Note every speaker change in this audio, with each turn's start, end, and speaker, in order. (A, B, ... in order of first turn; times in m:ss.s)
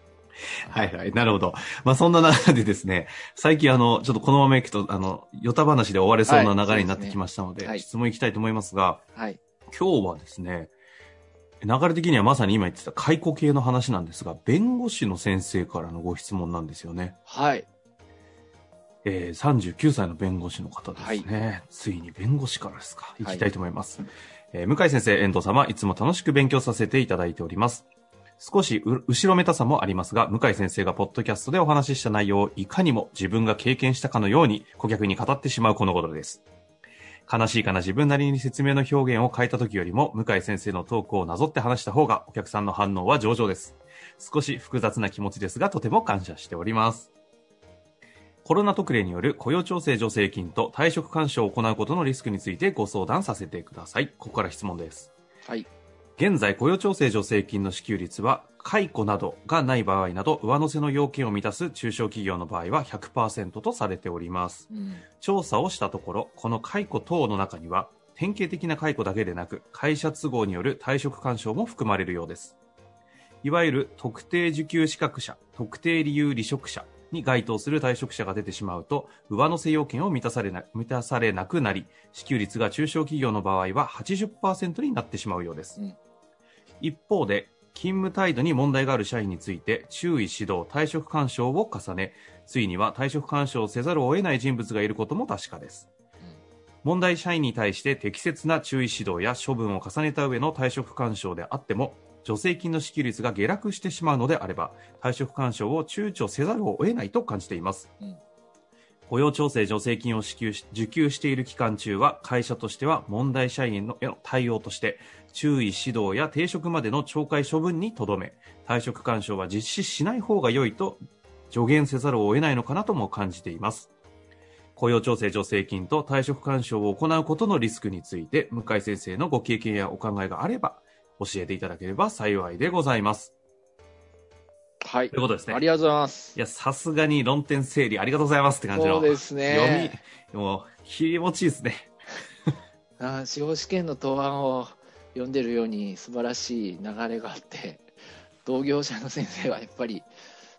0:00.6-0:09.0 A
0:06.2-0:07.8 B
0:09.1-0:09.4 B
0:09.7-0:10.7 A
0:11.6-0:17.2 A
0:17.3-0:17.7 B
0:19.0-0:27.8 A
0:21.0-0:21.3 B
0:23.2-0:23.4 B
0:28.4-0:36.4 A
0:37.3-0:47.1 A
0:48.4-0:55.1 A
0:56.2-1:04.6 A
1:04.7-1:05.0 B
1:05.2-1:12.6 A
1:13.4-1:25.8 A
1:26.8-1:35.9 A
1:36.8-1:47.9 A
1:49.1-2:03.9 A
2:04.8-2:13.3 A
2:14.8-2:16.4 B
2:15.1-2:15.6 A
2:16.3-2:21.9 A
2:18.7-2:20.0 B
2:23.0-2:27.8 B
2:28.4-2:30.1 B